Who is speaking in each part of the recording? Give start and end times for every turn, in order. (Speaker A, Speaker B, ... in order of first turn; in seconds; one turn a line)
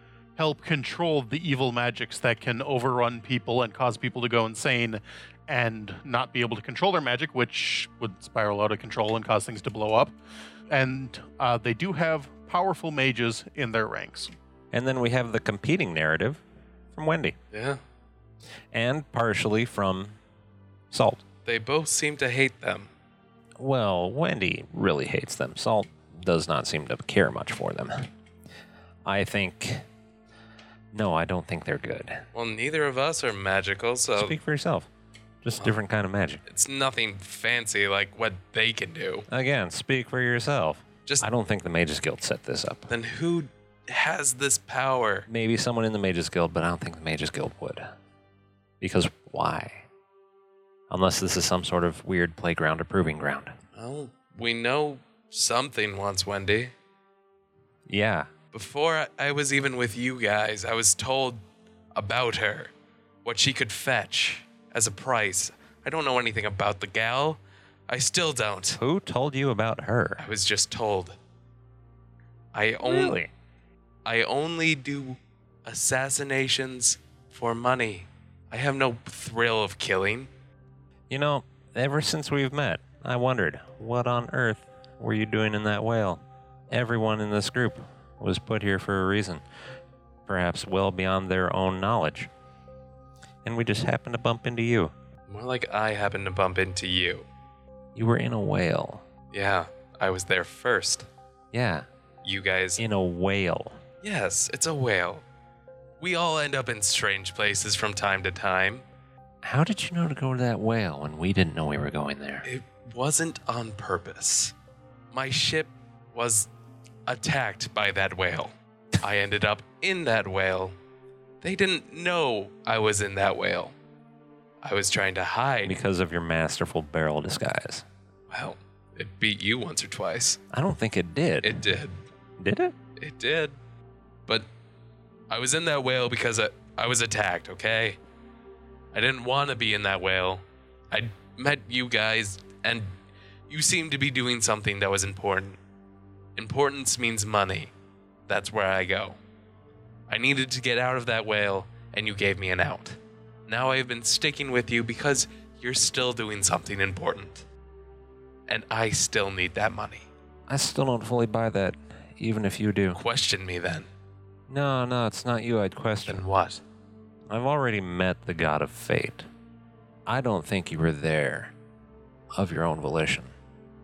Speaker A: 0.4-10.1
Speaker A: 10.7-14.3
Speaker B: 14.7-16.4
Speaker B: 16.9-17.4
Speaker C: 17.5-17.8
Speaker B: 18.7-20.2
Speaker B: 20.9-21.2
Speaker C: 21.5-22.9
Speaker B: 23.6-28.1
Speaker B: 29.1-29.9
Speaker B: 30.9-32.3
Speaker C: 32.3-34.4
Speaker B: 34.2-34.9
Speaker B: 35.4-36.4
Speaker C: 36.5-39.3
Speaker B: 39.3-42.9
Speaker C: 42.9-45.3
Speaker B: 45.3-47.9
Speaker B: 48.8-49.9
Speaker B: 50.9-53.5
Speaker C: 53.8-56.7
Speaker B: 57.9-58.3
Speaker C: 58.5-61.4
Speaker C: 62.0-62.7
Speaker C: 63.2-68.8
Speaker B: 68.8-70.3
Speaker C: 70.2-71.2
Speaker C: 72.5-73.2
Speaker B: 72.8-73.3
Speaker C: 74.0-80.3
Speaker B: 81.1-89.4
Speaker B: 90.3-92.3
Speaker B: 93.5-94.9
Speaker C: 95.3-97.3
Speaker B: 98.0-99.0
Speaker C: 99.3-101.1
Speaker B: 101.5-101.9
Speaker C: 102.2-102.8
Speaker B: 102.8-103.8
Speaker C: 104.0-105.2
Speaker C: 106.0-108.8
Speaker B: 109.4-112.5
Speaker C: 112.4-114.5
Speaker C: 115.1-116.5
Speaker C: 117.1-120.8
Speaker C: 121.4-123.8
Speaker C: 124.6-125.8
Speaker B: 125.7-127.8
Speaker C: 128.3-130.4
Speaker B: 130.5-131.6
Speaker C: 131.4-132.0
Speaker B: 132.4-132.8
Speaker C: 133.0-133.6
Speaker C: 135.3-138.0
Speaker C: 138.9-142.9
Speaker C: 143.5-145.6
Speaker C: 146.4-147.7
Speaker C: 148.3-149.2
Speaker C: 150.1-157.5
Speaker C: 158.5-160.1
Speaker B: 160.5-163.0
Speaker C: 162.9-163.9
Speaker B: 164.5-166.2
Speaker C: 166.1-166.6
Speaker B: 167.3-169.3
Speaker B: 170.1-171.5
Speaker B: 172.3-173.3